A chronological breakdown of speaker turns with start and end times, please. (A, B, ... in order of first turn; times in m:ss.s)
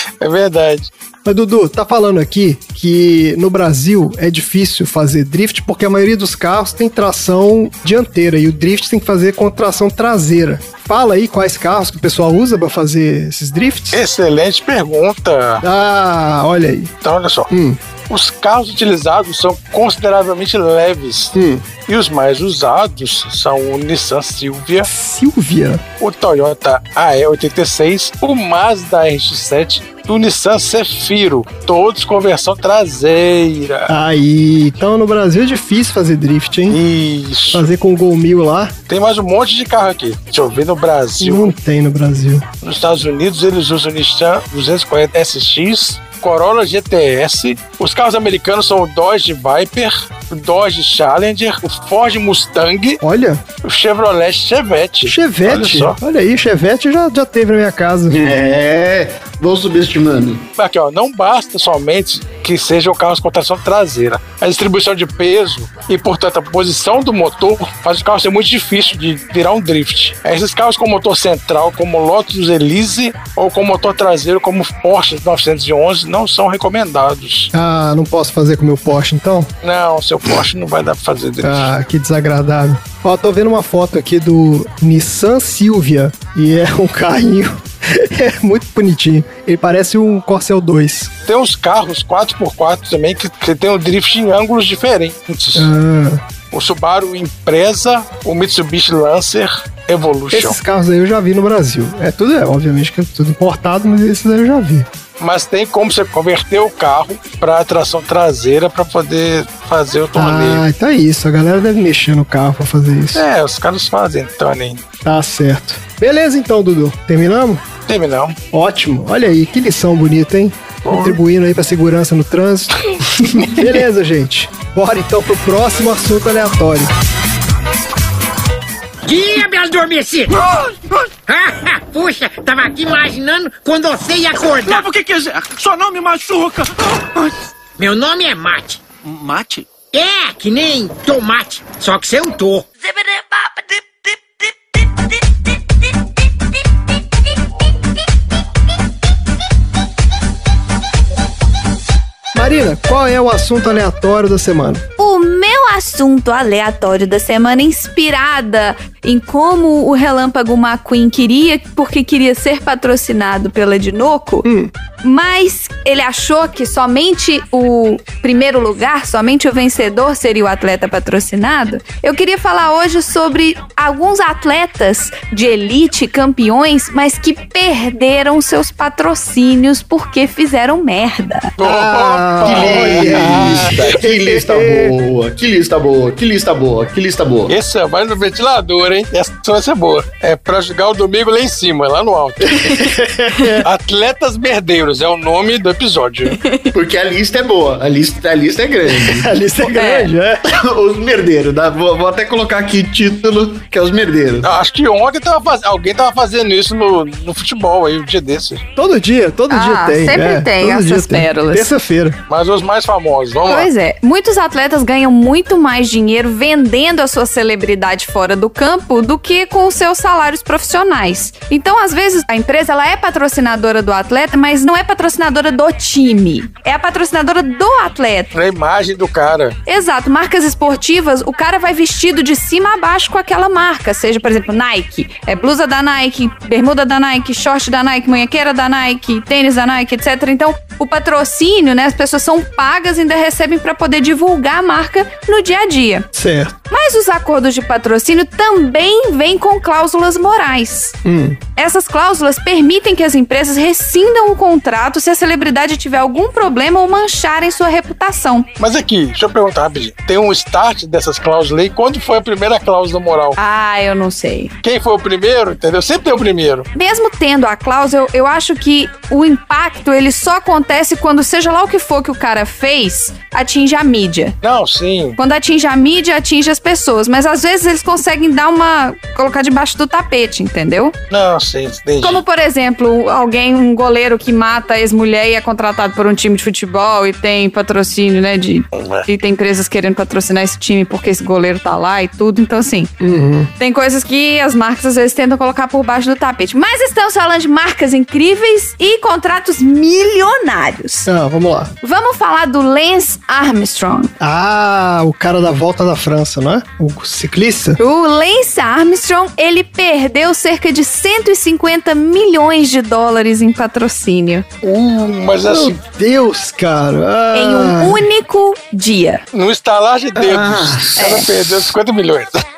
0:00.2-0:00.9 A
0:01.2-0:14.0 B
0:13.9-0:15.6 A
0:15.6-0:16.9 B
0:17.0-0:17.5 A
0:17.5-0:17.8 B
0:18.1-0:24.9 A
0:21.3-0:21.7 B
0:24.8-0:25.8 B
0:26.0-0:33.9 A
0:33.9-0:36.8 B
0:36.7-0:37.7 A
0:37.5-0:38.7 B
0:38.9-0:41.5 A
0:41.2-0:42.4 B
0:42.6-0:53.0 A
0:53.0-0:53.4 B
0:53.6-0:56.0 A
0:55.0-0:58.2 B
0:58.1-1:00.4 C
1:00.6-1:17.5 A
1:17.5-1:19.5 B
1:19.6-1:21.7 A
1:21.4-1:31.1 B
1:31.3-1:35.7 A
1:35.5-1:36.2 B
1:36.5-1:40.6 A
1:40.3-1:44.9 B
1:45.2-1:50.6 A
1:50.1-1:53.2 B
1:53.1-1:54.8 A
1:55.0-1:57.6 B
1:57.9-1:58.4 A
1:58.5-2:06.9 B
2:00.8-2:01.2 A
2:09.0-2:10.3 D
2:11.3-2:14.8 D
2:14.6-2:17.4 E
2:17.8-2:18.8 D
2:19.0-2:19.7 E
2:19.9-2:22.7 D
2:32.3-2:34.8 B
2:35.0-2:44.4 F
2:44.4-2:44.7 B
2:45.0-3:01.5 F
3:01.6-3:03.8 A
3:01.6-3:04.9 B
3:02.4-3:07.5 C
3:07.5-3:12.8 A
3:12.4-3:13.7 B
3:13.6-3:16.4 A
3:16.4-3:16.7 F
3:16.7-3:19.3 C
3:18.9-3:20.4 B
3:19.7-3:20.1 F
3:20.5-3:24.5 C
3:24.4-3:28.6 A
3:28.8-3:32.2 B
3:29.5-3:31.7 F
3:32.3-3:33.7 A
3:33.5-3:48.3 F
3:48.3-3:49.6 A
3:49.6-4:06.1 F
4:06.1-4:06.5 B
4:06.7-4:10.9 F
4:11.0-4:11.4 B
4:11.6-4:18.5 F
4:18.6-4:23.4 A
4:23.4-4:24.5 F
4:24.6-4:26.7 A
4:26.7-4:34.4 F
4:34.4-4:35.2 A
4:35.2-4:40.9 F
4:41.1-4:42.2 A
4:42.0-4:52.9 F
4:48.7-4:49.0 A
4:53.0-4:53.5 B
4:53.6-5:01.1 F
5:01.0-5:01.7 B
5:01.8-5:04.1 F
5:04.2-5:07.8 B
5:07.8-5:14.4 F
5:14.6-5:15.8 A
5:15.4-5:18.0 B
5:17.3-5:19.2 F
5:19.3-5:22.4 A
5:20.2-5:21.6 C
5:21.0-5:21.3 F